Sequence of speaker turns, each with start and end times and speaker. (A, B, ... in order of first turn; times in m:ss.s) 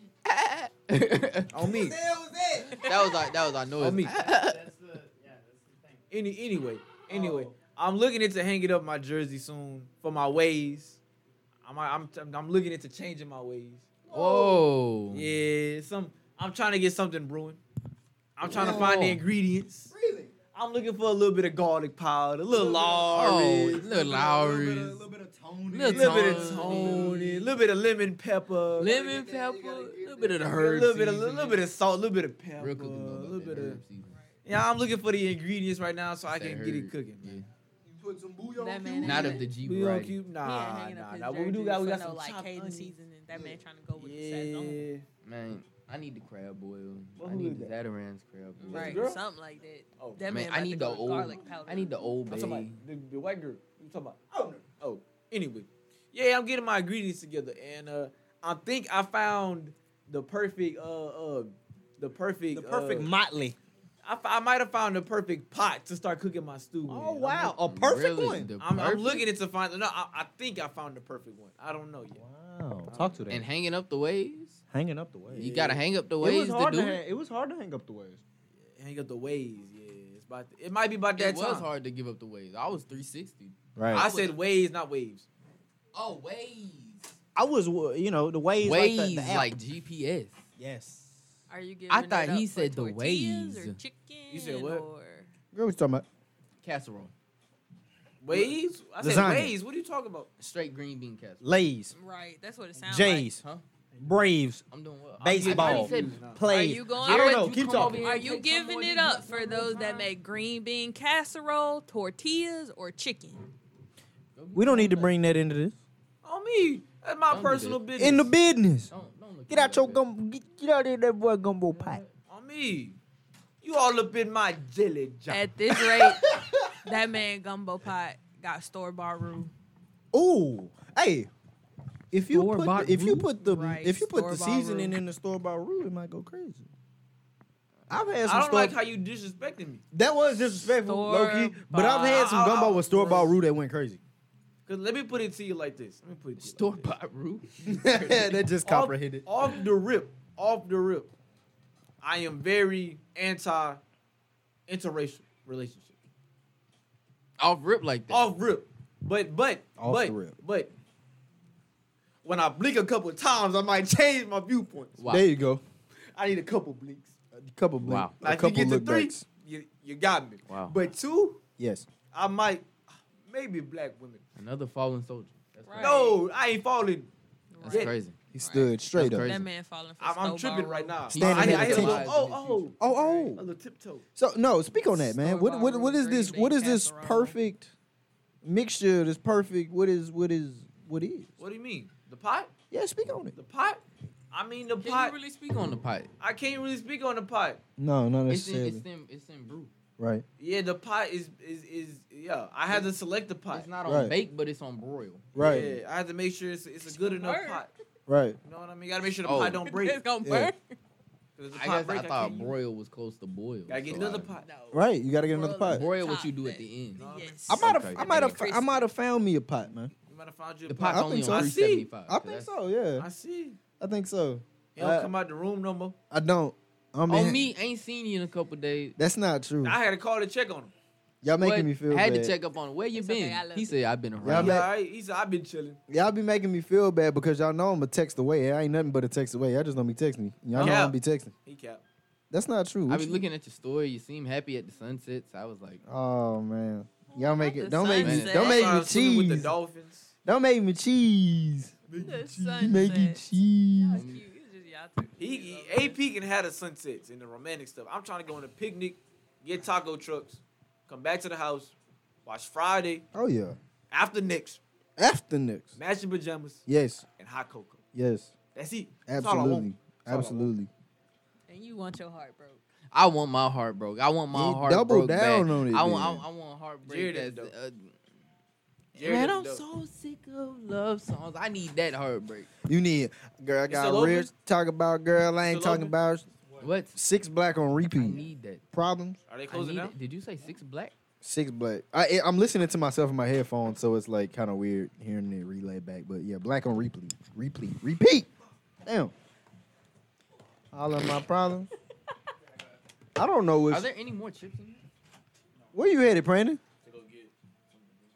0:00.2-0:01.5 A
0:01.5-0:02.0 B
0:01.6-0:02.8 C
0:02.8-0:04.6 A
0:03.8-0:04.1 B
0:04.0-0:06.0 D
0:06.1-0:11.0 B
0:07.1-0:07.5 C
0:11.6-0:14.0 B
0:14.1-0:14.6 C
0:14.1-0:15.2 A
0:15.1-0:17.6 B
0:18.4-0:19.9 B
0:18.5-0:19.1 C
0:18.5-0:19.2 A
0:19.9-0:20.3 C
0:20.5-0:23.7 B
0:22.5-0:27.3 C
0:23.1-0:25.0 A
0:25.7-0:27.5 A
0:25.9-0:28.9 B
0:28.8-0:31.6 A
0:28.8-0:30.5 C
0:30.5-0:33.8 B
0:32.6-0:34.1 A
0:34.4-0:37.4 B
0:36.3-0:37.5 A
0:37.8-0:39.4 C
0:38.6-0:39.5 E
0:39.0-0:40.2 A
0:39.5-0:42.9 B
0:40.4-0:44.8 E
0:43.3-0:43.6 C
0:44.0-0:45.0 B
0:45.2-0:49.1 A
0:47.2-0:47.7 B
0:48.6-0:52.1 E
0:48.6-0:49.2 B
0:50.0-0:50.2 B
0:50.3-0:52.8 A
0:52.3-0:54.2 B
0:54.3-0:54.6 C
0:54.8-1:03.1 B
1:02.5-1:03.6 C
1:04.0-1:07.5 B
1:06.9-1:08.5 C
1:07.6-1:09.3 A
1:08.6-1:12.2 B
1:12.2-1:13.4 C
1:12.9-1:13.2 B
1:13.3-1:14.6 A
1:14.7-1:15.5 C
1:15.3-1:17.0 A
1:15.4-1:15.8 B
1:16.2-1:18.2 C
1:18.8-1:21.7 B
1:21.2-1:24.4 A
1:23.8-1:24.1 C
1:23.9-1:25.3 B
1:25.9-1:27.2 A
1:27.3-1:29.5 C
1:28.6-1:30.4 A
1:30.6-1:31.2 C
1:31.5-1:35.3 E
1:31.9-1:33.8 A
1:34.3-1:34.8 B
1:35.5-1:36.0 C
1:36.6-1:37.1 A
1:38.2-1:40.3 B
1:38.3-1:39.5 C
1:40.4-1:41.4 A
1:41.4-1:41.9 C
1:41.9-1:43.3 E
1:42.8-1:43.4 C
1:44.0-1:44.6 C
1:44.7-1:46.2 A
1:45.2-1:46.4 B
1:45.2-1:48.1 C
1:46.4-1:53.4 E
1:47.0-1:50.1 A
1:54.4-1:55.2 A
1:54.5-1:55.8 C
1:56.2-1:58.3 B
1:57.3-1:58.1 A
1:58.0-1:58.9 C
1:58.9-2:00.0 A
1:59.5-2:02.0 C
2:01.7-2:02.1 A
2:02.3-2:03.0 B
2:03.6-2:05.4 B
2:05.3-2:09.5 E
2:05.7-2:06.9 C
2:10.1-2:11.3 C
2:12.1-2:16.7 C
2:12.3-2:13.2 A
2:13.1-2:15.0 E
2:17.9-2:18.8 C
2:18.2-2:19.8 B
2:19.9-2:24.0 C
2:20.7-2:22.3 E
2:21.8-2:23.3 B
2:24.6-2:26.9 B
2:26.4-2:28.4 A
2:27.6-2:29.2 C
2:28.6-2:31.1 B
2:32.0-2:33.8 B
2:34.7-2:36.0 B
2:37.4-2:38.2 A
2:38.1-2:40.7 B
2:39.8-2:40.4 C
2:42.2-2:45.0 B
2:45.0-2:45.3 A
2:45.0-2:45.6 C
2:46.0-2:47.1 B
2:47.3-2:49.2 C
2:47.8-2:48.1 A
2:48.2-2:51.4 B
2:50.5-2:50.7 A
2:51.6-2:51.9 C
2:52.1-2:54.2 B
2:54.4-2:56.1 A
2:55.6-2:56.2 E
2:55.8-2:57.1 B
2:57.5-3:01.1 E
2:57.6-2:58.2 A
2:57.6-2:57.9 B
2:58.3-2:59.3 C
2:58.9-2:59.5 A
3:00.0-3:04.0 B
3:01.1-3:03.2 A
3:01.2-3:02.1 C
3:02.8-3:03.4 C
3:04.2-3:07.7 C
3:05.0-3:07.4 E
3:08.4-3:11.3 C
3:11.4-3:12.5 B
3:12.7-3:13.3 C
3:13.3-3:15.1 B
3:14.8-3:16.1 A
3:16.2-3:17.6 B
3:17.8-3:18.8 C
3:18.3-3:19.7 A
3:20.0-3:20.2 C
3:20.4-3:23.7 B
3:23.5-3:25.7 A
3:23.8-3:24.1 C
3:25.3-3:25.7 C
3:25.4-3:27.7 B
3:26.8-3:27.7 E
3:28.1-3:28.4 C
3:28.4-3:30.0 B
3:29.2-3:29.6 A
3:29.6-3:30.6 E
3:30.2-3:30.5 C
3:31.4-3:32.5 B
3:31.6-3:34.3 A
3:33.7-3:34.4 B
3:34.4-3:38.8 E
3:34.7-3:35.8 C
3:35.7-3:38.4 A
3:37.0-3:37.5 B
3:37.5-3:39.9 C
3:40.1-3:41.9 B
3:40.7-3:42.5 A
3:40.8-3:43.0 C
3:43.0-3:43.6 B
3:43.8-3:45.1 C
3:44.8-3:46.0 B
3:46.1-3:47.4 C
3:47.1-3:49.0 A
3:49.0-3:49.8 C
3:49.6-3:50.7 B
3:51.2-3:52.3 C
3:51.4-3:54.6 A
3:52.9-3:53.8 E
3:54.2-3:54.7 C
3:54.3-3:55.8 B
3:55.9-4:01.3 C
4:00.5-4:01.8 B
4:02.3-4:03.2 C
4:02.9-4:05.8 A
4:05.8-4:09.5 C
4:07.1-4:08.8 E
4:08.0-4:08.6 A
4:08.3-4:10.1 B
4:10.2-4:14.0 C
4:11.9-4:12.2 B
4:11.9-4:16.0 E
4:13.9-4:14.2 A
4:15.2-4:21.7 B
4:22.2-4:23.0 B
4:23.1-4:23.6 C
4:23.9-4:24.6 B
4:25.0-4:25.8 C
4:25.8-4:26.6 B
4:26.7-4:27.0 C
4:27.2-4:27.8 B
4:27.9-4:28.3 C
4:28.5-4:30.5 B
4:29.1-4:30.7 C
4:31.5-4:32.6 E
4:32.9-4:37.9 A
4:34.3-4:36.2 C
4:36.8-4:37.5 B
4:38.9-4:39.6 B
4:39.0-4:42.5 A
4:42.6-4:46.3 C
4:43.7-4:44.3 B
4:45.4-4:45.9 B
4:46.6-4:47.0 A
4:46.9-4:49.2 C
4:47.9-4:48.6 A
4:49.3-4:49.9 B
4:49.5-4:50.9 A
4:51.2-4:58.3 C
4:58.8-4:59.1 C
5:00.7-5:01.7 C
5:03.2-5:03.9 C
5:03.7-5:04.8 A
5:05.7-5:06.6 C
5:06.8-5:07.9 B